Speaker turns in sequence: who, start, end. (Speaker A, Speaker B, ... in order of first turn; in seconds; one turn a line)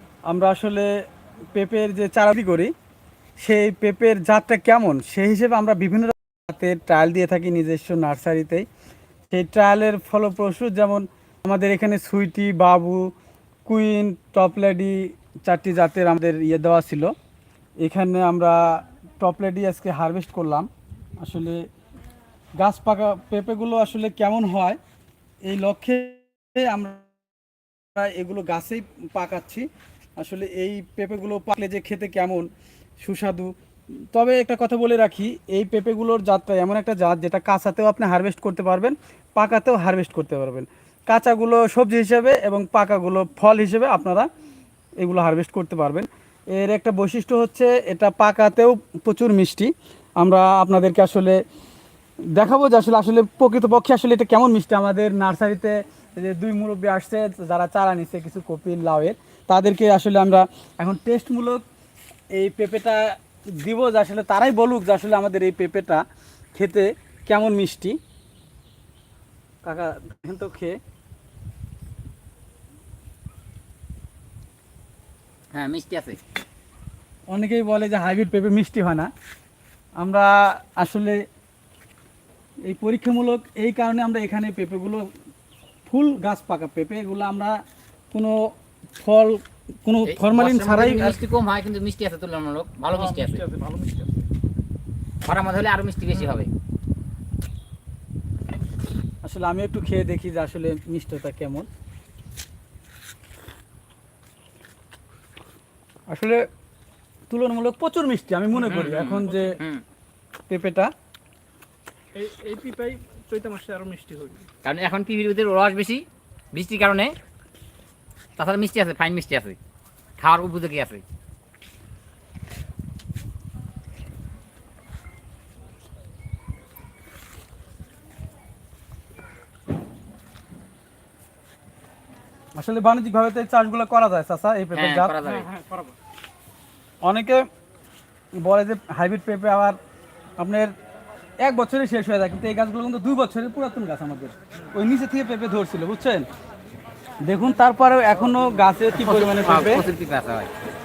Speaker A: 0.3-0.9
Speaker A: 1.5-2.7
Speaker A: 3.4-8.6
Speaker A: 9.3-13.1
Speaker A: 13.7-17.1
Speaker A: 17.8-20.7
Speaker A: 21.2-21.6
Speaker A: 22.6-24.8
Speaker A: 25.4-27.1
Speaker A: 27.9-29.7
Speaker A: 30.2-32.5
Speaker A: 33.0-33.5
Speaker A: 34.1-44.2
Speaker A: 45.0-51.4
Speaker A: 52.3-61.6
Speaker A: 62.3-66.0
Speaker A: 66.5-68.0
Speaker A: 69.6-70.8
Speaker B: 75.5-76.2
Speaker A: 77.3-79.1
Speaker A: 80.0-81.2
Speaker A: 82.6-85.1
Speaker A: 85.9-87.6
Speaker A: 88.1-91.2
Speaker B: 90.0-93.4
Speaker C: 92.9-94.2
Speaker B: 95.2-96.5
Speaker A: 99.2-101.7
Speaker A: 106.1-106.4
Speaker A: 107.3-109.6
Speaker B: 108.6-109.8
Speaker C: 108.7-109.5
Speaker A: 110.5-110.9
Speaker C: 112.1-114.5
Speaker B: 114.6-117.1
Speaker B: 118.4-119.6
Speaker B: 120.2-121.0
Speaker A: 132.6-135.1
Speaker B: 134.7-135.5
Speaker C: 135.2-135.9
Speaker A: 137.0-137.4
Speaker A: 138.4-139.8
Speaker A: 140.4-140.7
Speaker A: 141.4-146.2
Speaker A: 147.2-149.9
Speaker B: 148.9-150.5